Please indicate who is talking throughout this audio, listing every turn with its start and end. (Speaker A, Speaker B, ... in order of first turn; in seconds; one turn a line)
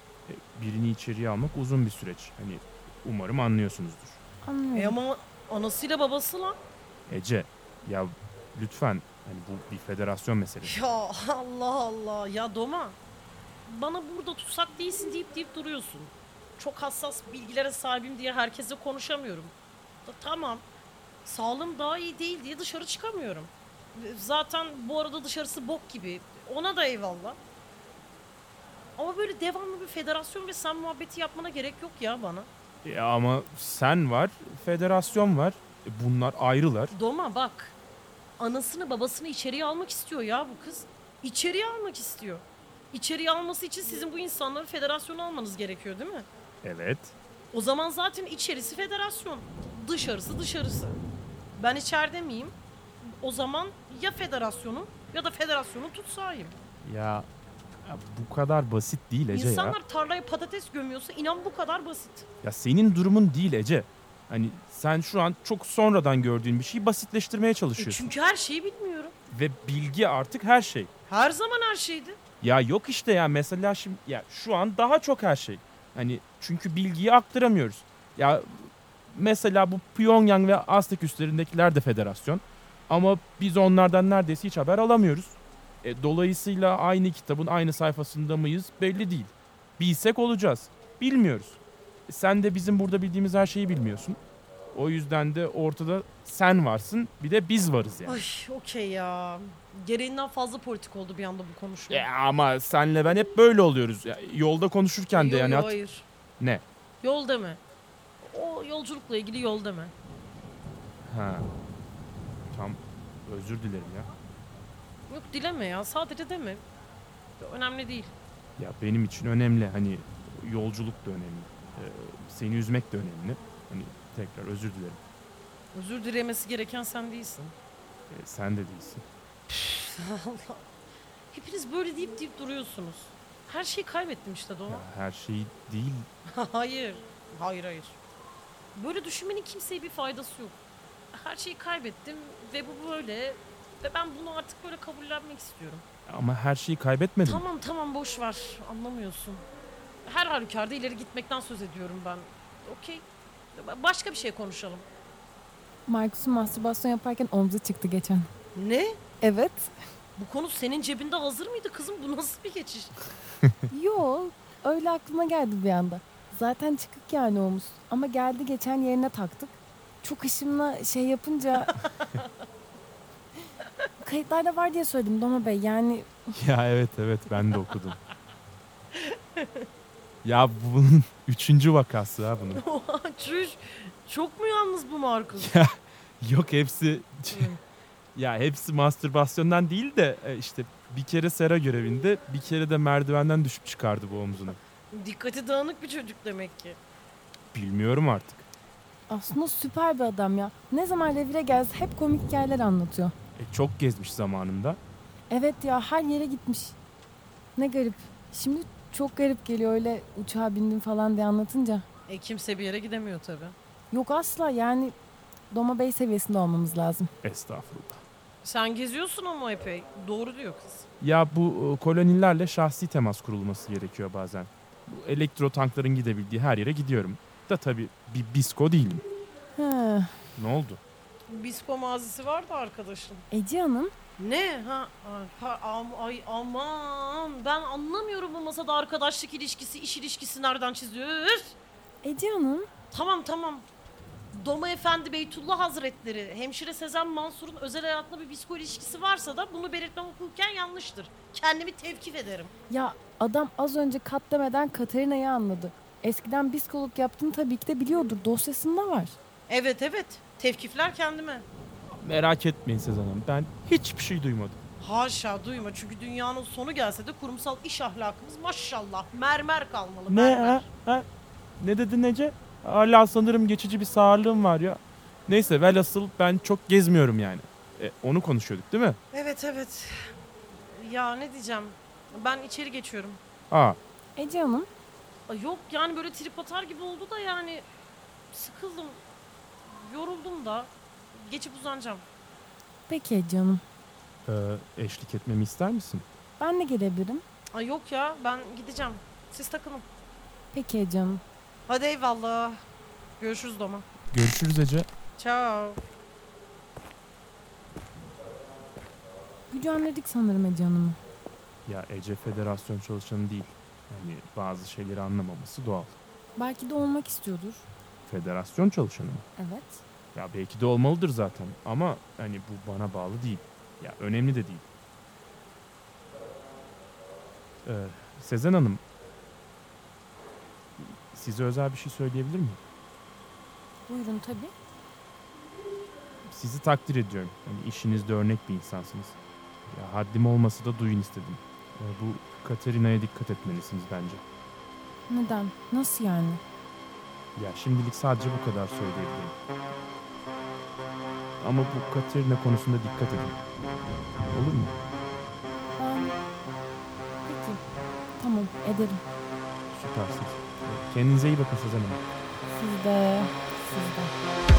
Speaker A: 0.3-4.2
Speaker B: 4.4-5.0
Speaker C: 4.7-6.6
Speaker A: 7.1-10.8
Speaker C: 10.6-13.0
Speaker C: 13.7-19.6
Speaker C: 20.1-20.7
Speaker C: 21.2-27.4
Speaker C: 29.0-32.5
Speaker A: 32.8-37.0
Speaker C: 36.9-37.8
Speaker C: 38.4-46.3
Speaker A: 46.6-47.1
Speaker C: 47.5-51.0
Speaker C: 51.6-56.6
Speaker A: 56.8-57.3
Speaker A: 57.8-59.8
Speaker C: 59.3-62.3
Speaker A: 62.4-68.1
Speaker C: 67.8-69.1
Speaker A: 69.3-70.9
Speaker C: 71.1-72.2
Speaker A: 72.4-94.2
Speaker A: 94.7-98.2
Speaker C: 98.1-102.1
Speaker A: 101.9-105.8
Speaker C: 105.1-106.1
Speaker C: 107.0-107.6
Speaker C: 108.2-109.9
Speaker A: 111.1-111.5
Speaker A: 112.5-114.1
Speaker C: 115.1-116.7
Speaker C: 117.4-118.1
Speaker A: 118.6-125.0
Speaker C: 125.7-127.5
Speaker A: 128.1-129.0
Speaker C: 129.5-130.7
Speaker C: 131.3-134.9
Speaker A: 134.7-136.1
Speaker C: 136.3-138.0
Speaker C: 138.8-140.6
Speaker C: 141.1-145.8
Speaker A: 146.1-147.4
Speaker C: 147.2-149.5
Speaker C: 150.1-154.9
Speaker B: 155.9-158.3
Speaker C: 158.6-159.0
Speaker B: 159.2-159.7
Speaker C: 160.2-162.9
Speaker B: 163.7-171.8
Speaker C: 171.8-172.2
Speaker B: 174.0-176.3
Speaker A: 176.3-178.0
Speaker C: 178.9-179.7
Speaker A: 180.2-182.6
Speaker C: 182.6-185.5
Speaker A: 185.3-187.6
Speaker C: 187.3-187.6
Speaker A: 188.2-194.6
Speaker C: 194.9-196.8
Speaker A: 197.5-198.5
Speaker B: 199.1-203.1
Speaker A: 203.4-204.8
Speaker B: 205.3-206.8
Speaker B: 207.6-211.9
Speaker C: 212.1-213.6
Speaker B: 213.9-214.9
Speaker B: 215.5-217.1
Speaker A: 217.2-218.0
Speaker C: 218.4-220.9
Speaker A: 221.0-229.0
Speaker B: 229.6-230.2
Speaker A: 230.4-230.8
Speaker C: 231.3-233.2
Speaker B: 233.3-233.9
Speaker C: 234.2-241.6
Speaker B: 242.0-242.7
Speaker C: 242.9-243.7
Speaker C: 244.3-252.5
Speaker B: 252.7-259.2
Speaker C: 259.5-261.5
Speaker A: 262.0-264.6
Speaker C: 264.8-270.6
Speaker A: 270.1-271.1
Speaker A: 271.6-279.0
Speaker C: 279.1-283.2
Speaker A: 283.5-283.8
Speaker B: 284.2-284.7
Speaker C: 285.3-287.7
Speaker C: 288.3-289.0
Speaker C: 289.6-292.1
Speaker B: 292.9-293.6
Speaker A: 294.3-296.1
Speaker B: 296.4-297.2
Speaker C: 297.5-299.9
Speaker B: 300.5-301.2
Speaker C: 301.7-302.6
Speaker C: 303.2-303.9
Speaker A: 304.1-304.9
Speaker C: 305.2-305.8
Speaker B: 309.5-311.0
Speaker A: 311.7-316.0
Speaker B: 316.4-317.7
Speaker A: 318.1-319.3
Speaker B: 319.4-319.8
Speaker A: 320.1-324.7
Speaker A: 327.6-328.8
Speaker A: 330.8-332.6
Speaker B: 333.9-334.5
Speaker A: 336.3-339.2
Speaker A: 339.7-344.2
Speaker B: 345.1-346.4
Speaker A: 347.4-349.4
Speaker A: 351.4-353.4
Speaker A: 354.3-354.8
Speaker B: 355.8-356.2
Speaker B: 357.2-357.6
Speaker B: 358.2-359.0
Speaker A: 359.7-362.0
Speaker B: 362.5-364.1